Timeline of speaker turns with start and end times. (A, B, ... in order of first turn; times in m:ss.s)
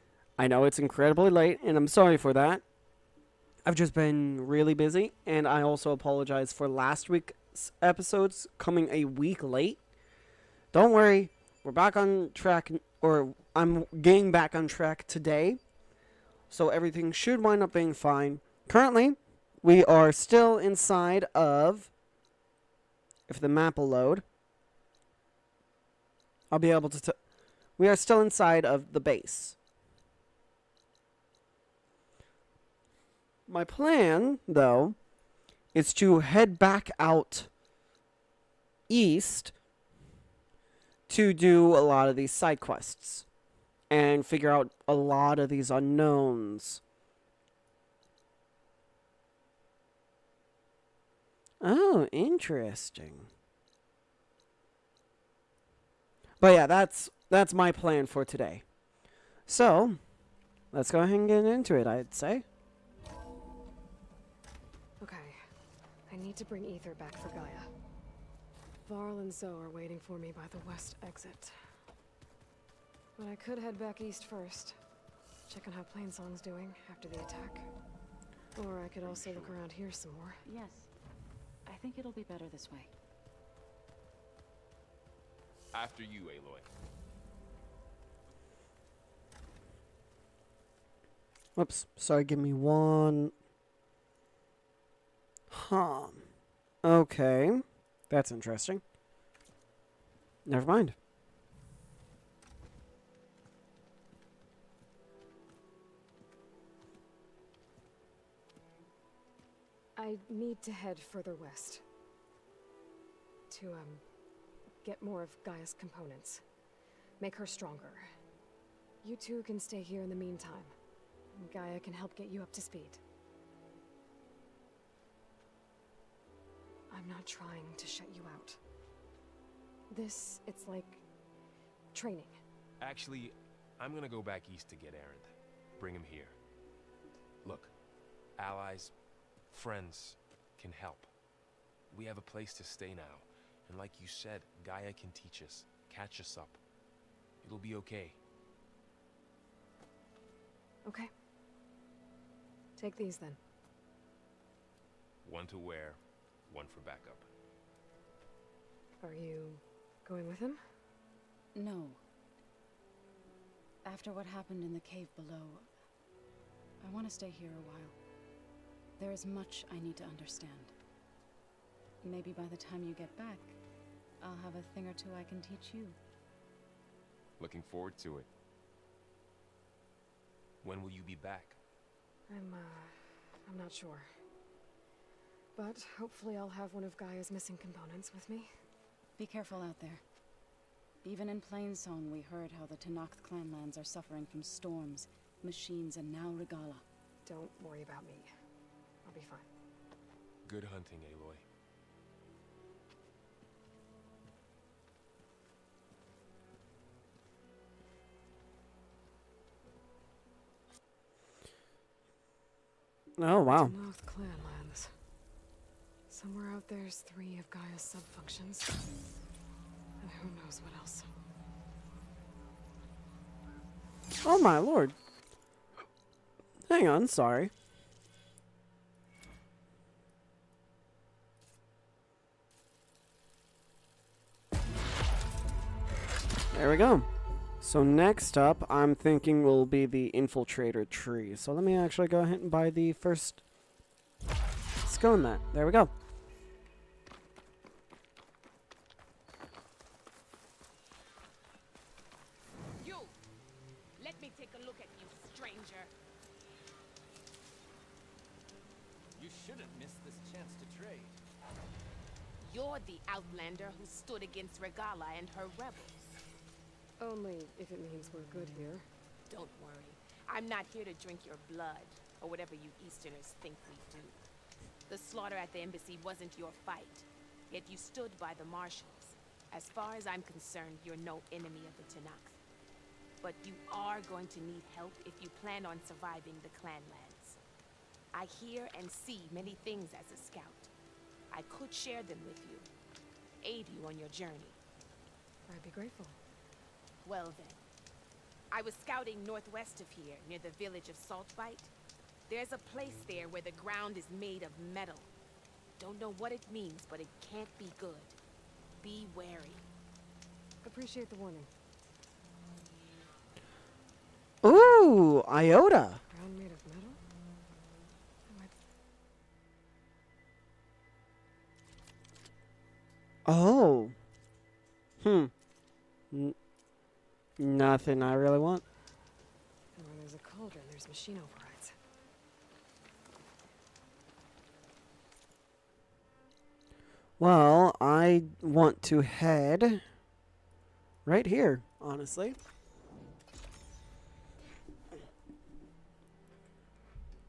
0:00.4-0:02.6 A
0:03.6-0:09.8 A
0:10.7-0:15.6 A
0:16.5-0:21.9 A
0:23.3-0:24.2 A
0:26.5-0:27.2 A
0:27.8-0:29.6 A
0:33.5-0:35.0 A
0:35.7-0:37.5 A
0:38.9-0:39.5 A
0:41.1-0:43.3 A
0:43.9-0:46.8 A
0:51.6-0:53.3 A
0:56.4-0:58.6 A
0:59.5-1:00.0 A
1:00.7-1:02.4 A
1:05.0-1:05.4 B
1:06.1-1:07.7 B
1:08.8-1:11.6 B
1:13.2-1:14.8 B
1:15.5-1:17.7 B
1:18.6-1:20.4 B
1:19.1-1:19.5 C
1:20.4-1:20.9 D
1:21.7-1:22.9 D
1:25.7-1:26.7 C
1:31.6-1:33.3 A
1:35.5-1:36.2 A
1:36.8-1:38.8 A
1:40.5-1:41.0 A
1:50.0-1:51.8 B
1:53.5-1:54.0 B
1:54.8-1:56.4 B
1:57.2-1:58.1 B
1:59.0-2:00.7 B
2:01.4-2:03.0 B
2:06.9-2:08.6 B
2:09.9-2:11.0 B
2:11.9-2:12.4 B
2:12.8-2:16.4 C
2:17.4-2:17.8 C
2:18.4-2:21.1 C
2:21.9-2:26.6 C
2:27.4-2:28.2 C
2:30.9-2:31.1 B
2:32.8-2:33.4 B
2:35.2-2:37.3 C
2:39.0-2:40.6 B
2:41.5-2:42.0 D
2:43.8-2:45.7 D
2:46.8-2:48.0 D
2:49.0-2:50.7 D
2:52.0-2:53.6 D
2:54.2-2:56.0 D
2:57.4-2:58.3 C
3:00.6-3:01.6 C
3:02.3-3:04.1 B
3:05.6-3:08.5 B
3:09.2-3:10.0 D
3:11.0-3:16.8 D
3:17.2-3:18.3 B
3:19.0-3:19.5 B
3:20.4-3:21.4 C
3:33.2-3:33.7 A
3:33.5-3:34.9 B
3:36.1-3:38.8 B
3:40.0-3:41.1 B
3:44.2-3:45.0 A
3:46.7-3:47.5 A
3:56.5-3:57.1 A
3:57.6-4:03.4 A
4:04.8-4:05.9 A
4:12.8-4:13.2 E
4:14.0-4:15.9 E
4:19.2-4:21.2 F
4:22.4-4:26.0 E
4:27.0-4:28.9 B
4:29.3-4:34.2 E
4:34.9-4:42.4 E
4:43.2-4:47.4 E
4:48.1-4:50.7 E
4:51.3-4:52.7 E
4:53.4-4:54.6 E
4:55.5-4:56.2 B
4:57.0-4:57.6 E
4:58.5-5:01.7 E
5:02.3-5:05.1 E
5:05.8-5:08.2 E
5:08.8-5:09.7 E
5:10.6-5:11.5 B
5:14.4-5:16.0 A
5:16.1-5:17.0 B
5:18.3-5:18.5 B
5:23.2-5:24.0 A
5:25.0-5:25.3 A
5:26.1-5:26.4 A
5:27.4-5:28.6 A
5:29.8-5:31.8 B
5:37.2-5:39.8 A
5:41.1-5:42.4 A